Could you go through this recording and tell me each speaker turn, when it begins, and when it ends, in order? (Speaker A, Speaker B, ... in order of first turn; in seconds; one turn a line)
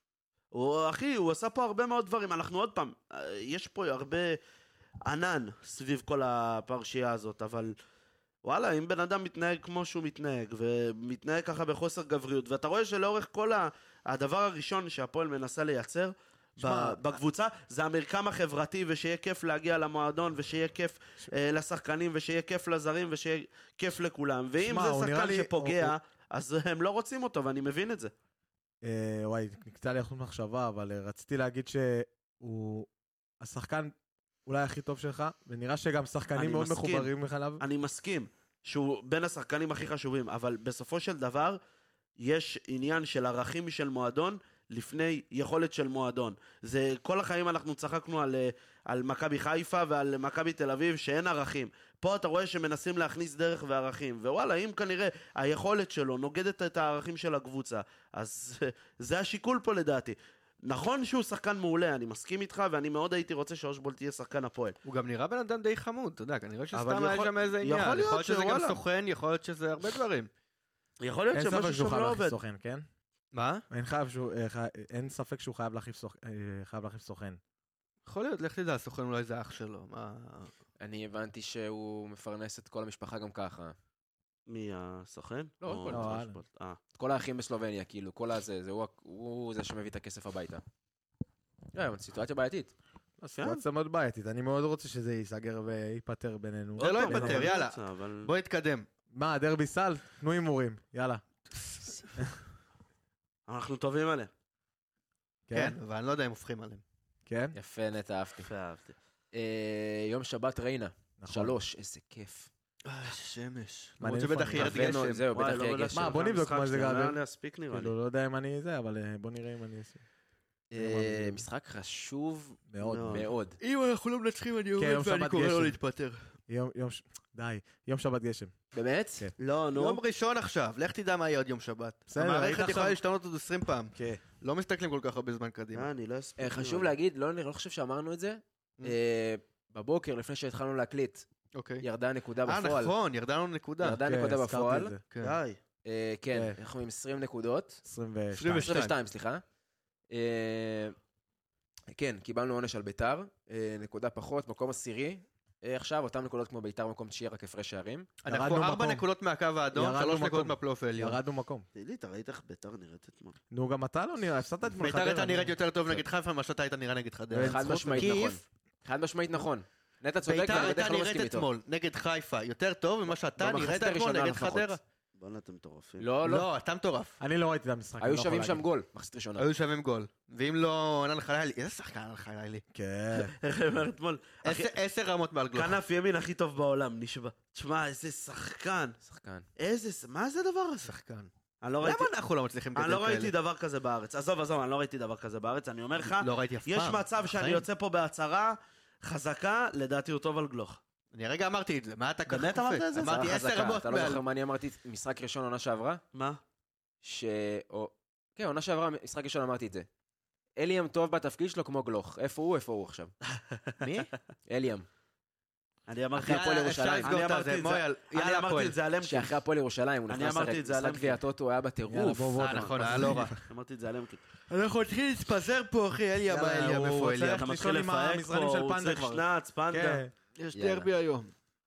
Speaker A: 0.5-4.4
Speaker A: 5.0-7.7
Speaker A: 8.4-28.1
Speaker B: 16.6-17.0
Speaker B: 24.6-25.9
Speaker B: 28.8-32.9
Speaker B: 33.4-33.9
Speaker B: 34.5-37.6
Speaker A: 36.4-41.6
Speaker A: 42.2-64.8
Speaker C: 64.8-70.3
Speaker A: 66.7-68.8
Speaker A: 71.0-72.4
Speaker B: 71.3-72.9
Speaker C: 73.3-73.6
Speaker B: 73.7-77.4
Speaker C: 78.0-80.5
Speaker D: 80.8-83.8
Speaker A: 84.5-86.8
Speaker D: 85.6-86.1
Speaker B: 85.9-86.4
Speaker D: 87.0-90.6
Speaker D: 91.7-92.7
Speaker B: 93.2-97.6
Speaker A: 93.4-93.6
Speaker A: 96.8-98.3
Speaker C: 96.8-98.9
Speaker B: 99.1-101.2
Speaker C: 101.5-102.2
Speaker A: 103.5-104.3
Speaker B: 105.5-105.8
Speaker C: 105.5-106.8
Speaker B: 107.3-107.5
Speaker D: 107.5-108.5
Speaker A: 108.4-108.9
Speaker D: 109.3-112.5
Speaker B: 111.2-111.5
Speaker C: 112.8-115.3
Speaker B: 114.0-114.9
Speaker D: 114.5-116.2
Speaker A: 115.3-117.9
Speaker B: 115.9-117.2
Speaker B: 117.7-120.0
Speaker D: 120.7-122.6
Speaker B: 120.8-121.4
Speaker B: 122.7-123.3
Speaker A: 122.8-123.3
Speaker D: 123.1-123.6
Speaker C: 123.6-126.2
Speaker B: 124.8-125.8
Speaker B: 126.5-128.5
Speaker D: 128.7-129.3
Speaker A: 129.4-130.0
Speaker C: 129.7-135.9
Speaker B: 132.1-133.0
Speaker B: 133.9-134.2
Speaker A: 135.7-136.9
Speaker D: 136.4-141.2
Speaker C: 141.5-141.8
Speaker D: 141.8-142.9
Speaker C: 142.4-144.0
Speaker D: 143.8-144.9
Speaker B: 144.0-145.0
Speaker C: 145.1-145.4
Speaker A: 145.2-145.6
Speaker D: 145.8-147.8
Speaker B: 146.3-146.6
Speaker B: 147.8-148.8
Speaker C: 148.3-148.9
Speaker D: 148.6-149.4
Speaker D: 150.1-150.9
Speaker D: 151.9-158.1
Speaker C: 158.2-161.2
Speaker B: 158.3-159.1
Speaker B: 159.7-161.7
Speaker A: 161.7-163.4
Speaker B: 163.5-166.0
Speaker C: 164.7-168.4
Speaker B: 167.3-168.2
Speaker D: 167.4-171.5
Speaker C: 170.2-174.8
Speaker D: 173.4-174.8
Speaker A: 175.2-176.1
Speaker D: 176.0-176.5
Speaker C: 176.2-177.2
Speaker B: 177.2-178.7
Speaker D: 178.0-179.4
Speaker C: 179.4-182.6
Speaker B: 182.7-183.3
Speaker A: 183.1-184.7
Speaker C: 184.4-185.8
Speaker A: 185.6-189.0
Speaker D: 189.0-189.4
Speaker A: 189.6-190.9
Speaker C: 190.8-191.3
Speaker A: 191.6-192.1
Speaker C: 191.8-193.3
Speaker A: 192.7-200.8
Speaker C: 196.0-197.6
Speaker C: 201.1-204.2
Speaker A: 202.3-203.2
Speaker D: 203.0-206.0
Speaker A: 206.1-206.4
Speaker D: 207.0-209.9
Speaker D: 210.6-213.1
Speaker C: 213.8-214.1
Speaker D: 214.5-214.9
Speaker A: 215.9-216.4
Speaker D: 216.2-217.2
Speaker C: 216.2-218.8
Speaker A: 217.0-219.3
Speaker D: 219.0-222.6
Speaker A: 220.1-221.2
Speaker B: 221.9-223.4
Speaker C: 222.4-223.4
Speaker A: 222.5-224.2
Speaker C: 224.5-227.4
Speaker B: 226.3-230.1
Speaker A: 227.3-230.0
Speaker C: 230.3-231.3
Speaker D: 230.5-230.9